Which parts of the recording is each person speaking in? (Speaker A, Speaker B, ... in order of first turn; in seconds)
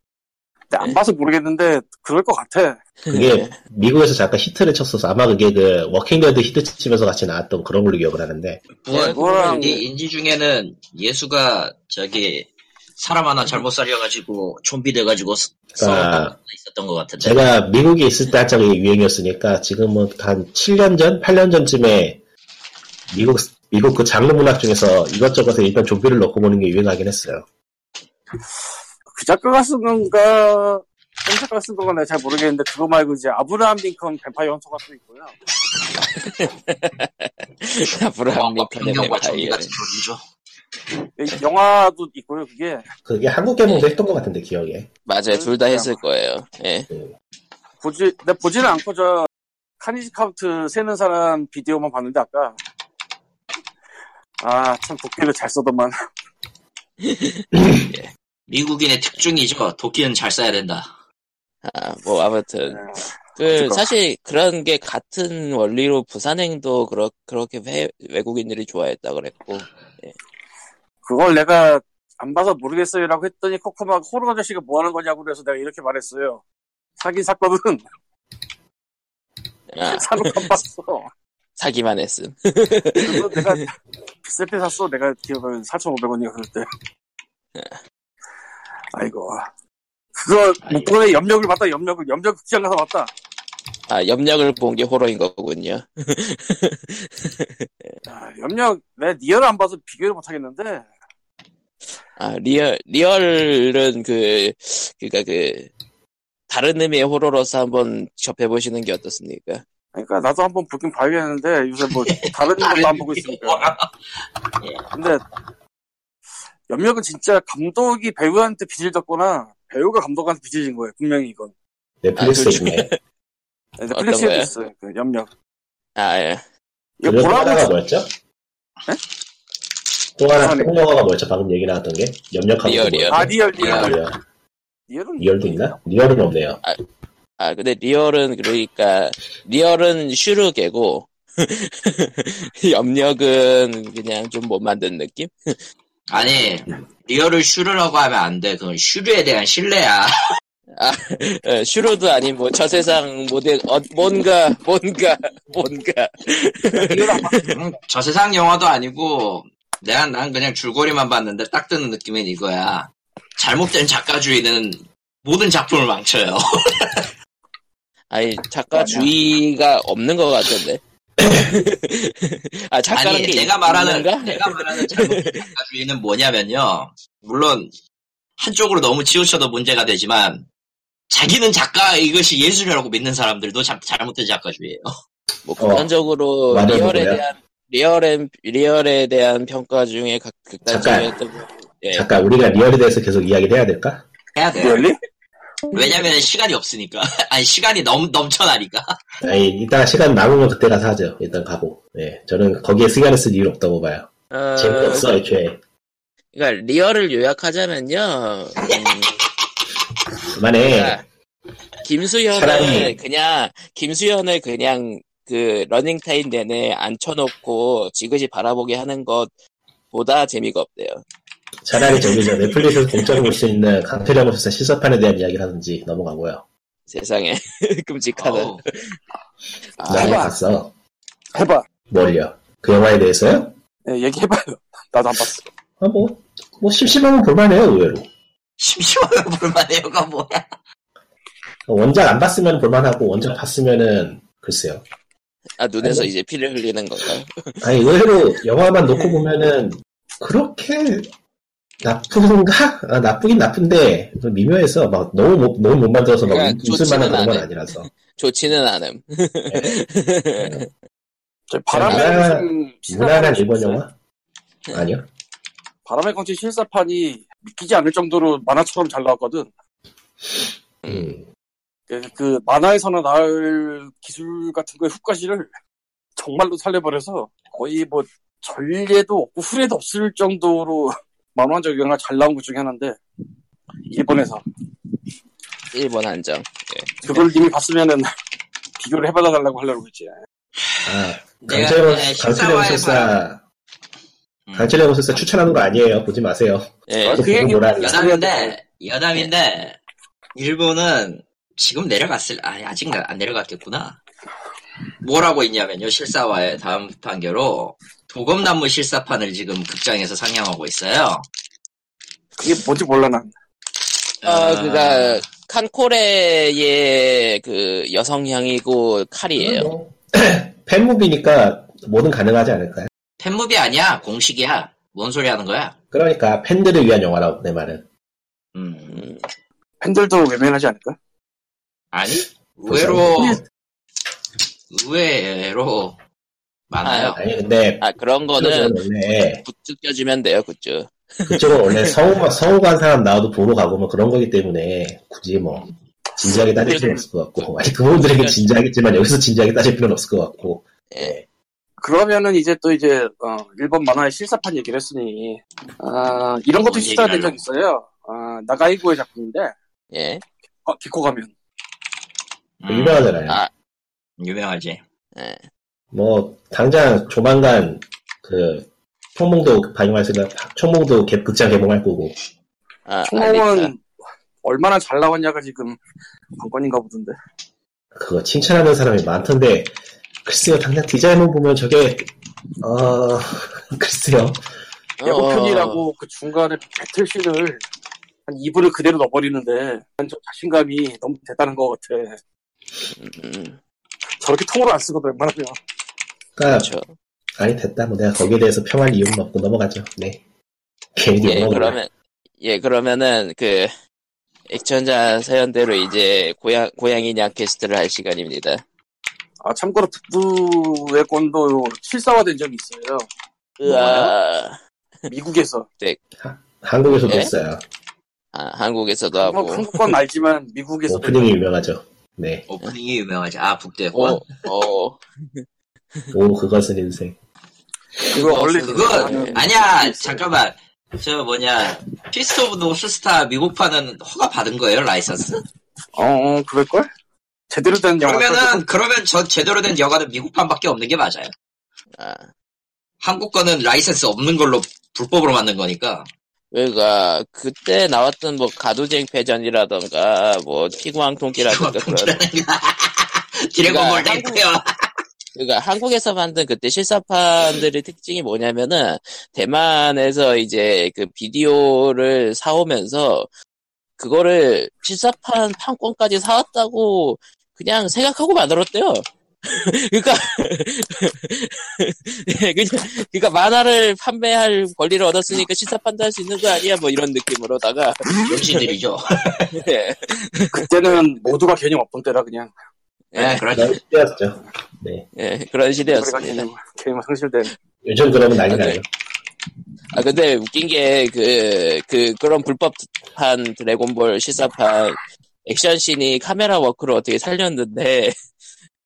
Speaker A: 0.7-2.8, 8.9-9.8, 29.1-35.3, 41.2-42.9, 45.3-46.0, 47.8-49.3, 49.8-52.6, 54.4-55.9, 62.7-63.9, 71.0-76.4, 77.0-77.8, 79.8-81.1, 82.9-86.7, 88.9-89.5, 90.2-93.1, 98.1-100.8, 109.9-113.8, 114.9-115.2, 116.7-121.5, 123.8-125.3, 127.0-127.7, 130.3-130.7, 133.1-134.1, 134.9-135.5, 156.7-157.4, 168.7-169.1, 194.6-195.0, 229.9-230.3, 231.3-231.6, 233.9-235.4, 261.5-263.8, 265.9-269.5, 271.9-275.5, 276.2-283.0, 283.9-284.4, 287.0-288.1, 288.8-290.1, 297.0-298.6, 312.4-313.3, 329.8-331.0, 346.2-347.0, 351.8-359.5, 360.6-361.3, 373.1-373.8, 374.4-375.8, 376.4-377.1, 385.0-387.6, 388.3-392.2, 394.2-395.6, 409.4-413.1, 415.1-415.7, 419.2-421.3, 428.0-430.2, 435.9-436.9, 437.5-438.6, 480.5-482.5, 485.9-487.5
Speaker B: 3.0-3.6, 8.9-9.7, 36.1-39.7, 45.1-46.9, 57.0-58.1, 61.6-70.1, 79.7-80.5, 81.6-83.6, 93.9-98.0, 102.2-105.7, 106.5-109.6, 122.2-123.0, 123.9-124.5, 126.0-126.4, 132.6-133.3, 137.4-145.6, 150.8-157.6, 168.1-175.5, 185.4-192.1, 204.3-205.1, 206.3-209.1, 210.6-211.0, 211.8-219.3, 219.9-221.0, 221.8-223.1, 226.9-229.0, 229.8-230.3, 245.6-247.6, 256.2-260.7, 270.8-271.1, 285.7-287.3, 296.9-297.3, 314.2-319.7, 328.9-329.2, 336.8-337.2, 337.8-338.8, 339.4-342.0, 347.4-348.5, 359.9-360.2, 365.1-365.4, 372.9-373.7, 385.0-385.8, 392.9-393.6, 396.4-396.9, 401.2-403.7, 404.5-408.6, 413.6-414.6, 416.9-417.3, 418.3-419.9, 423.9-425.4, 428.1-429.4, 442.0-442.3, 446.5-452.2, 453.6-454.3, 455.3-463.3, 464.0-478.0, 479.5-480.9, 483.1-483.4, 485.1-486.5, 488.4-488.8, 489.9-498.1
Speaker C: 3.1-8.6, 15.7-16.3, 17.2-22.2, 23.1-27.4, 43.0-44.9, 122.0-122.9, 127.0-128.1, 130.2-134.2, 135.2-136.6, 185.6-185.9, 186.5-187.2, 190.7-191.1, 191.9-194.0, 199.2-205.6, 210.3-211.0, 212.3-212.9, 221.6-226.4, 229.9-230.7, 231.9-233.5, 235.8-238.1, 241.7-244.8, 245.8-246.1, 247.6-251.1, 251.8-257.9, 260.4-260.6, 261.7-263.9, 264.7-265.0, 270.9-271.3, 290.8-293.4, 294.5-298.1, 319.4-322.9, 325.9-327.8, 332.7-333.4, 337.1-339.4, 341.3-345.7, 346.2-351.2, 362.7-363.4, 365.9-372.1, 377.9-379.7, 380.2-382.1, 382.6-384.4, 396.4-396.7, 397.4-400.2, 400.9-401.8, 416.2-417.6, 420.9-422.4, 426.1-427.1, 483.5-485.1, 487.8-488.8
Speaker D: 8.8-17.4, 38.3-40.2, 58.5-60.9, 112.0-113.9, 133.6-133.9, 146.1-150.1, 157.5-167.1, 172.9-177.7, 178.4-180.4, 181.1-184.9, 194.3-194.8, 195.7-199.0, 228.2-228.6, 238.6-240.4, 291.4-293.1, 294.5-294.8, 297.8-299.8, 300.4-304.0, 305.0-311.3, 314.2-315.2, 323.2-325.7, 328.5-329.0, 331.9-333.4, 334.7-336.0, 336.7-337.2, 356.6-357.4, 362.6-363.2, 364.2-364.8, 413.7-414.1, 422.5-424.3, 428.6-435.4, 438.0-441.3, 443.0-446.1, 451.4-454.9, 478.2-479.6, 483.1-483.8